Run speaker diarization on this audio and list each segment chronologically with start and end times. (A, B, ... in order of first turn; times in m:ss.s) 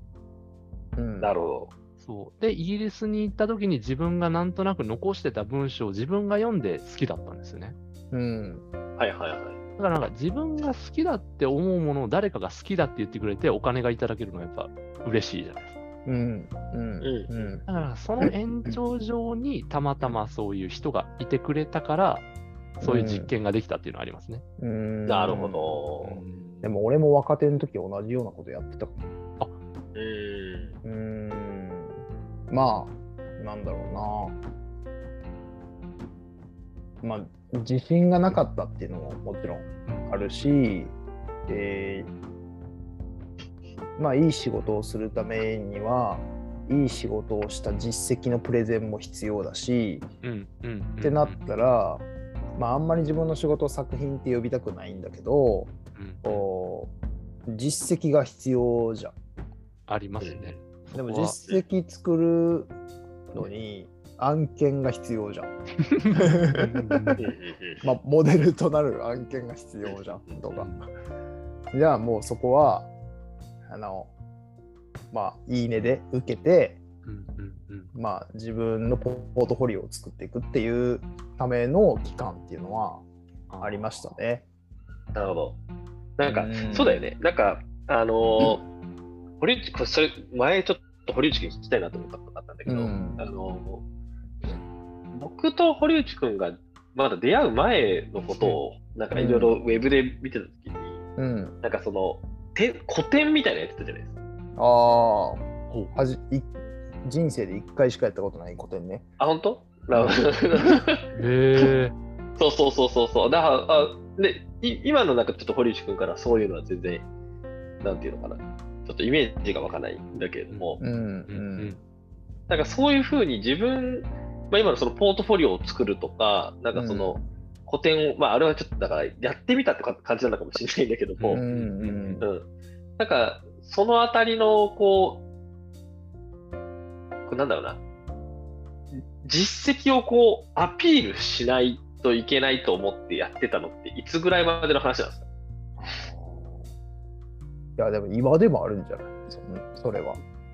0:01.0-0:01.3 A
0:01.2-0:01.7 B
0:02.0-0:07.8 C
0:08.1-0:08.6 A
0:09.0-0:09.6 B
0:09.8-0:15.8 C
0:16.0-0:17.6 A
0:17.0-0:17.6 B
0:17.6-0:22.2 C
0:18.2-0:18.7 A
0:22.8-0:24.4 C
0:22.8-0:23.3 A
0:24.6-0:25.8 A
0:25.1-0:26.2 B
0:26.0-0:26.8 C
0:26.6-0:29.0 A
0:29.9-0:30.8 B
0:30.8-0:34.4 A
0:37.0-0:40.9 A
0:39.8-0:40.6 C
0:41.5-0:42.1 A
0:44.0-0:50.1 A
0:50.2-0:51.4 C
0:51.0-0:56.9 A
0:56.0-0:56.5 C
0:57.5-0:59.1 A
0:59.9-1:01.4 C
1:00.2-1:00.6 B
1:00.9-1:02.7 A
1:03.3-1:05.5 A
1:05.9-1:07.2 C
1:06.1-1:07.2 A
1:07.2-1:07.8 B
1:07.8-1:10.8 A
1:09.8-1:10.4 B
1:10.5-1:10.8 C
1:11.7-1:12.9 A
1:13.7-1:14.1 A
1:15.1-1:16.8 A
1:17.0-1:17.9 C
1:17.9-1:23.0 A
1:23.5-1:23.9 C
1:23.6-1:24.4 A
1:25.1-1:25.6 B
1:26.2-1:28.6 B
1:26.2-1:27.1 A
1:29.4-1:33.8 B
1:32.6-1:33.2 A
1:35.1-1:41.0 B
1:39.1-1:39.5 A
1:41.2-1:41.5 A
1:41.6-1:44.1 B
1:44.6-1:46.5 A
1:45.7-1:46.0 C
1:47.0-1:49.0 A
1:49.2-1:51.7 B
1:51.1-1:52.0 C
1:52.4-1:57.1 B
1:57.8-2:00.8 B
2:00.5-2:01.8 C
2:00.8-2:01.8 A
2:02.5-2:11.4 B
2:06.7-2:07.2 A
2:11.2-2:12.2 C
2:11.3-2:12.2 A
2:13.0-2:15.2 B
2:17.3-2:17.8 B
2:19.2-2:25.2 B
2:25.8-2:26.7 A
2:27.8-2:30.2 A